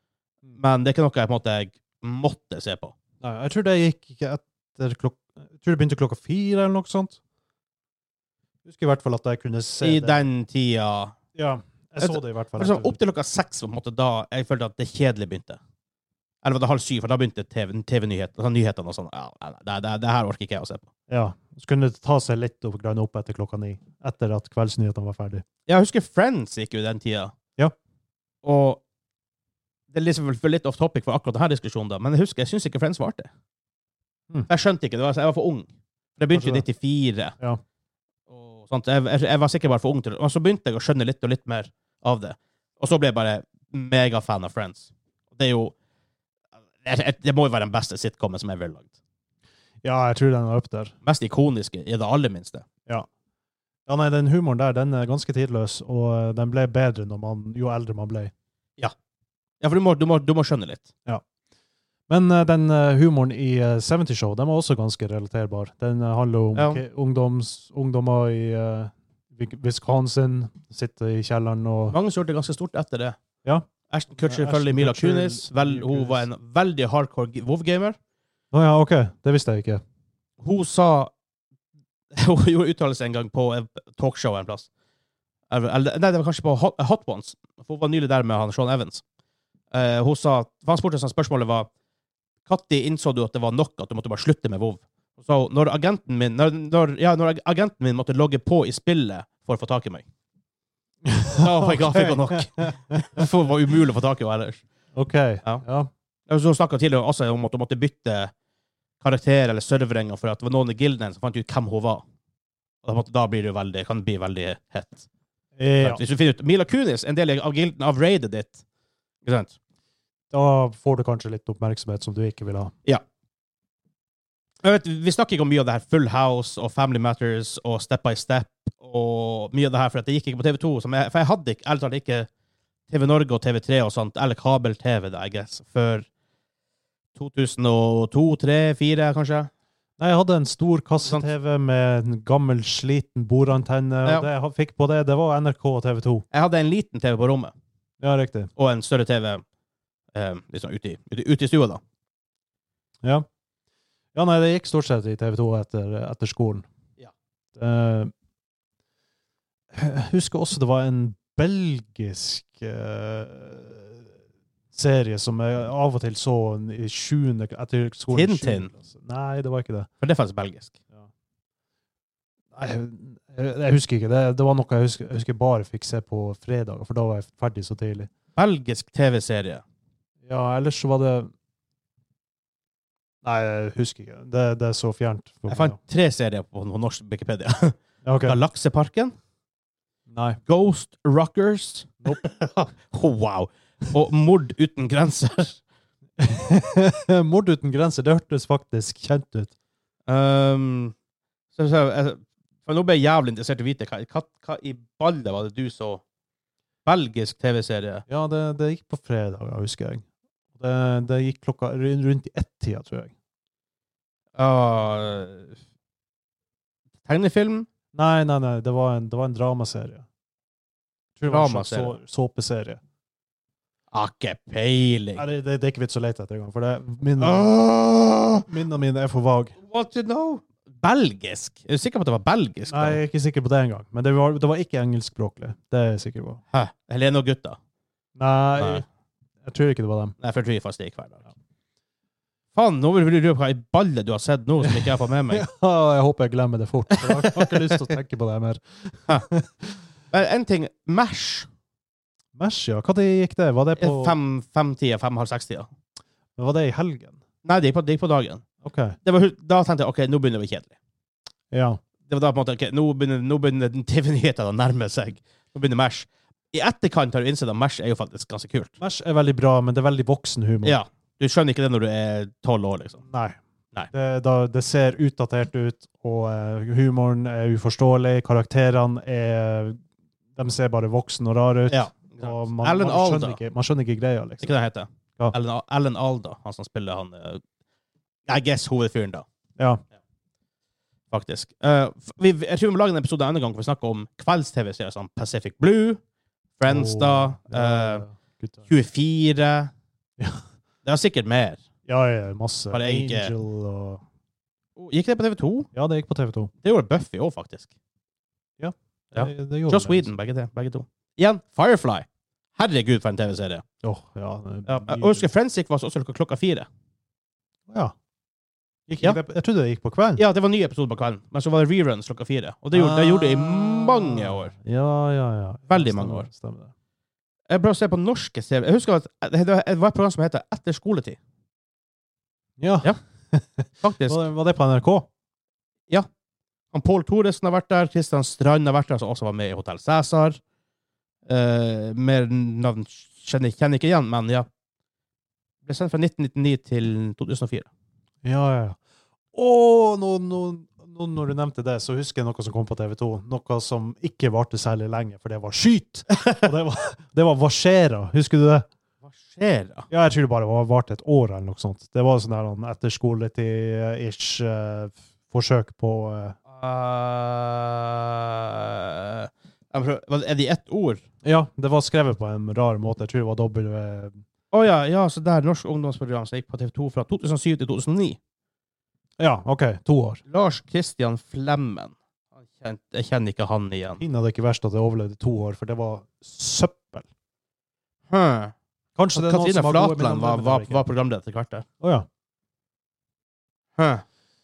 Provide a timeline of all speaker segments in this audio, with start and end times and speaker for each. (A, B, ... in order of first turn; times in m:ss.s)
0:00.6-0:02.9 A
0:03.2-0:07.2 B
0:08.6-0:10.2 B
0:09.8-0:11.2 A
0:11.4-0:13.0 B
0:12.0-0:15.6 A
0:16.4-0:20.9 A
0:21.1-0:25.4 B
0:25.7-0:27.3 A
0:28.4-0:28.8 A
0:29.9-0:33.3 A
0:34.5-0:37.4 A
0:36.3-0:36.6 B
0:38.3-0:45.7 A
0:46.8-0:48.9 A
0:49.8-0:51.0 B
0:51.0-0:52.7 A
0:53.9-0:58.3 B
0:59.6-1:00.9 A
1:02.1-1:12.0 B
1:06.6-1:06.8 A
1:11.9-1:13.2 A
1:13.9-1:18.0 A
1:14.2-1:16.3 B
1:18.5-1:19.8 B
1:20.4-1:21.1 A
1:22.1-1:24.7 A
1:25.5-1:29.0 A
1:29.7-1:31.7 A
1:32.5-1:40.0 A
1:41.0-1:43.3 B
1:41.4-1:44.6 A
1:44.9-1:45.9 B
1:46.3-1:48.3 A
1:49.0-1:52.0 A
1:52.8-1:55.1 A
1:55.6-1:56.0 B
1:55.8-1:58.6 A
1:59.2-1:59.5 A
2:00.3-2:02.7 B
2:04.6-2:12.3 A
2:12.9-2:16.1 A
2:17.2-2:19.5 A
2:20.0-2:26.2 B
2:26.3-2:27.5 A
2:28.0-2:28.5 B
2:28.6-2:29.4 A
2:30.1-2:31.8 A
2:34.1-2:36.7 B
2:37.6-2:38.1 B
2:39.7-2:44.1 B
2:44.7-2:49.9 B
2:48.1-2:48.7 A
2:50.0-2:50.8 A
2:52.5-2:58.1 B
2:58.4-2:59.6 A
3:00.2-3:01.3 B
3:03.2-3:05.8 B
3:05.5-3:09.2 A
3:08.0-3:08.4 B
3:10.1-3:10.4 B
3:10.5-3:15.6 A
3:16.2-3:19.5 B
3:20.1-3:21.0 A
3:21.6-3:26.0 A
3:26.8-3:28.0 A
3:28.1-3:30.0 B
3:30.6-3:33.1 B
3:34.4-3:35.6 A
3:37.1-3:37.7 A
3:37.9-3:40.0 B
3:41.2-3:42.8 B
3:41.3-3:42.0 A
3:43.9-3:45.2 A
3:45.2-3:47.5 B
3:47.2-3:48.5 A
3:48.5-3:49.6 B
3:49.6-3:53.0 A
3:52.7-3:56.4 B
3:56.5-3:57.6 A
3:58.2-3:58.8 B
3:58.6-3:58.8 A
3:59.4-4:00.2 B
4:00.2-4:01.2 A
4:02.5-4:05.4 A
4:04.6-4:09.8 B
4:06.9-4:07.8 A
4:10.1-4:11.5 A
4:12.4-4:14.2 B
4:13.8-4:15.7 A
4:16.4-4:17.2 B
4:17.4-4:18.4 A
4:18.6-4:19.0 B
4:19.0-4:20.7 A
4:21.5-4:21.8 B
4:22.1-4:28.7 A
4:28.8-4:30.8 B
4:30.6-4:33.0 A
4:33.0-4:33.4 B
4:33.9-4:39.8 B
4:40.4-4:44.5 B
4:41.7-4:43.4 A
4:44.4-4:47.4 A
4:48.3-4:49.2 A
4:49.6-4:49.8 B
4:51.1-4:56.0 A
4:56.6-4:58.0 A
4:56.7-4:58.7 B
4:58.7-4:59.7 A
5:00.8-5:01.6 A
5:01.9-5:04.0 B
5:02.7-5:03.3 A
5:04.8-5:05.7 A
5:05.7-5:06.5 B
5:06.6-5:07.7 A
5:08.6-5:10.1 B
5:09.1-5:13.6 A
5:13.8-5:15.3 B
5:14.7-5:16.7 A
5:17.7-5:17.9 B
5:18.9-5:20.2 B
5:20.2-5:24.5 A
5:22.7-5:26.7 B
5:25.7-5:26.3 A
5:27.5-5:31.2 A
5:32.6-5:35.1 B
5:33.8-5:34.3 A
5:36.7-5:40.4 A
5:41.3-5:44.5 A
5:45.7-5:47.7 A
5:48.2-5:48.8 B
5:49.3-5:58.7 B
5:56.1-5:56.4 A
5:59.0-5:59.9 A
5:59.9-6:06.4 B
6:06.5-6:11.0 A
6:11.2-6:14.2 B
6:14.5-6:18.2 A
6:19.2-6:20.2 B
6:20.3-6:22.0 A
6:22.5-6:24.0 A
6:24.0-6:27.1 B
6:28.1-6:28.5 A
6:29.0-6:30.8 B
6:29.2-6:31.7 A
6:31.8-6:32.1 B
6:33.8-6:34.0 A